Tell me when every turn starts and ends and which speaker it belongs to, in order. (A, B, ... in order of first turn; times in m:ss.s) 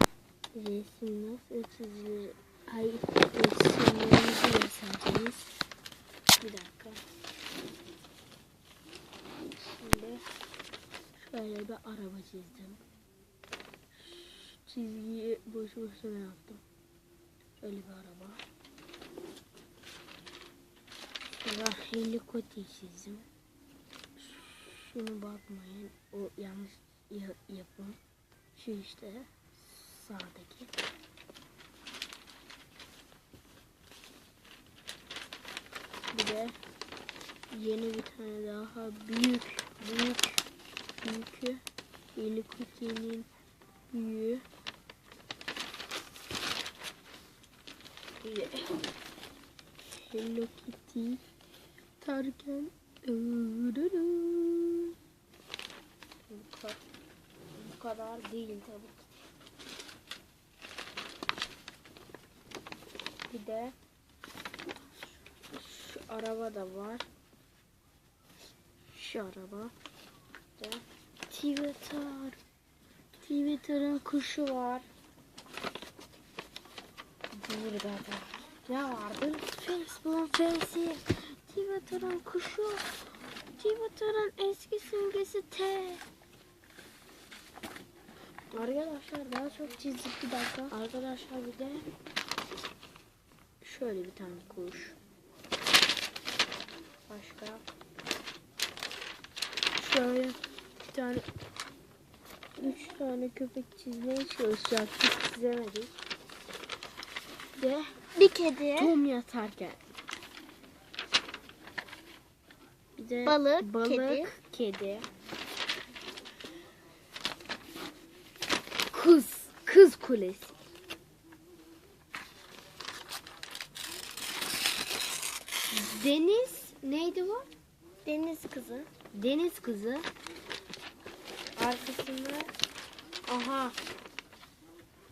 0:00.5-0:05.4 A
0:06.4-0:07.0 A
0:09.8-0:10.2 A
0:11.2-0:12.8 A
0:13.9-0:16.6 A
0:17.6-0:18.4 A
0:21.4-0:23.2 A
0:24.2-0:28.0 A
0:28.5-0:30.7 A
0:36.1-0:36.6 A
0:37.5-0:40.4 A
0:41.0-0:41.6 A
0:42.1-0:43.3 A
0:43.9-0:44.4 A
0:48.2-0:48.8 A
0:50.0-0:51.2 A
0:52.0-0:54.9 A
0:56.3-0:56.8 A
0:57.6-0:59.2 A
1:03.3-1:03.7 A
1:05.5-1:07.0 A
1:08.9-1:09.7 A
1:10.6-1:12.4 A
1:13.2-1:14.8 A
1:17.4-1:22.9 A
1:23.6-1:26.0 A
1:28.5-1:31.8 A
1:33.6-1:35.0 A
1:37.1-1:37.6 A
1:39.8-1:40.4 A
1:40.9-1:41.2 A
1:42.6-1:46.0 A
1:47.6-1:48.0 A
1:48.1-1:48.9 B
1:48.8-1:49.8 A
1:53.0-1:55.0 A
1:53.2-1:54.3 B
1:58.9-2:00.5 A
2:05.7-2:07.5 A
2:08.0-2:08.9 B
2:09.1-2:10.0 A
2:11.6-2:12.5 A
2:13.3-2:13.8 A